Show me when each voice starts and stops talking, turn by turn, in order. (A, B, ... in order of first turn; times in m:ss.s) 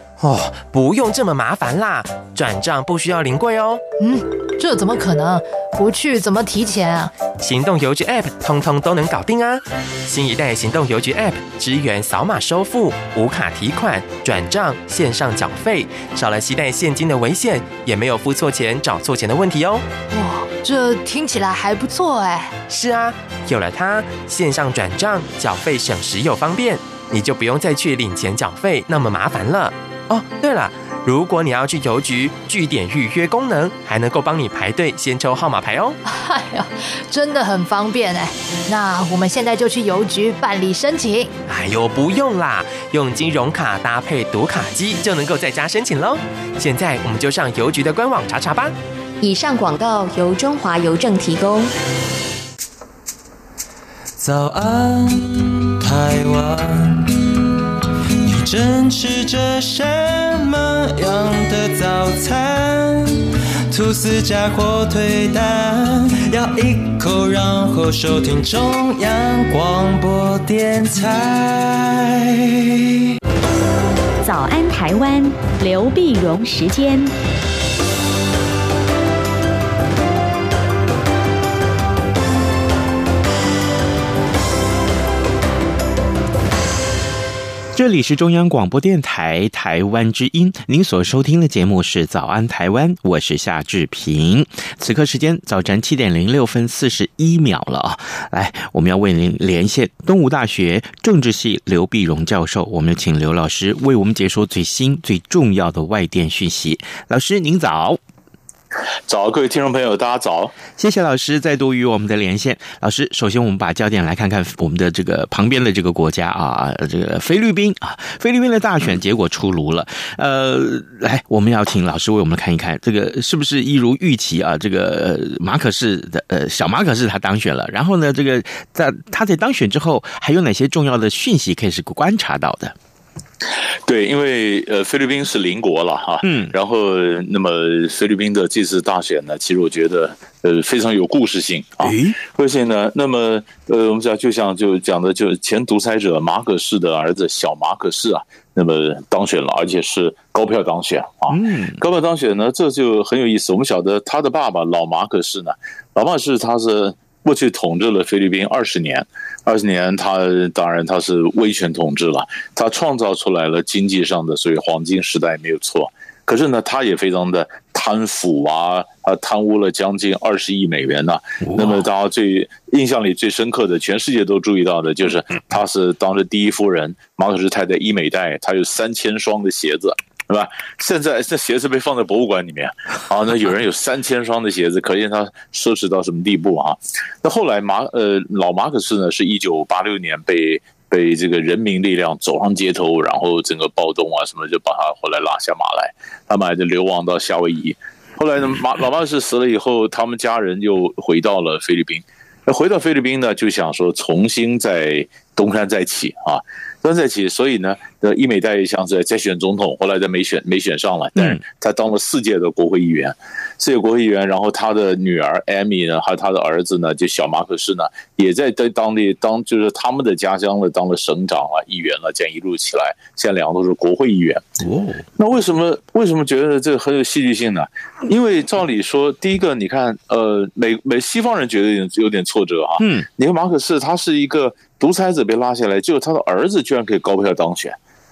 0:00.2-0:03.8 A
0:04.0-0:07.1 B
0:07.4-0:19.8 A
0:20.1-0:22.5 B
0:22.7-0:36.0 A
0:36.0-0:41.3 B
0:41.5-0:48.8 A
0:49.2-0:51.7 C
0:54.2-0:57.2 D
0:58.2-1:12.6 D
1:14.2-1:17.2 E
1:27.8-1:48.0 F
1:49.1-1:50.5 G
1:50.8-2:12.8 F
2:13.9-3:44.4 G
2:16.2-2:16.5 F
2:21.8-2:22.2 F
2:31.3-2:31.8 F
2:51.4-2:51.8 F
3:31.2-3:31.4 F
3:44.6-3:45.1 F
3:45.2-3:57.8 G
3:52.8-3:53.1 F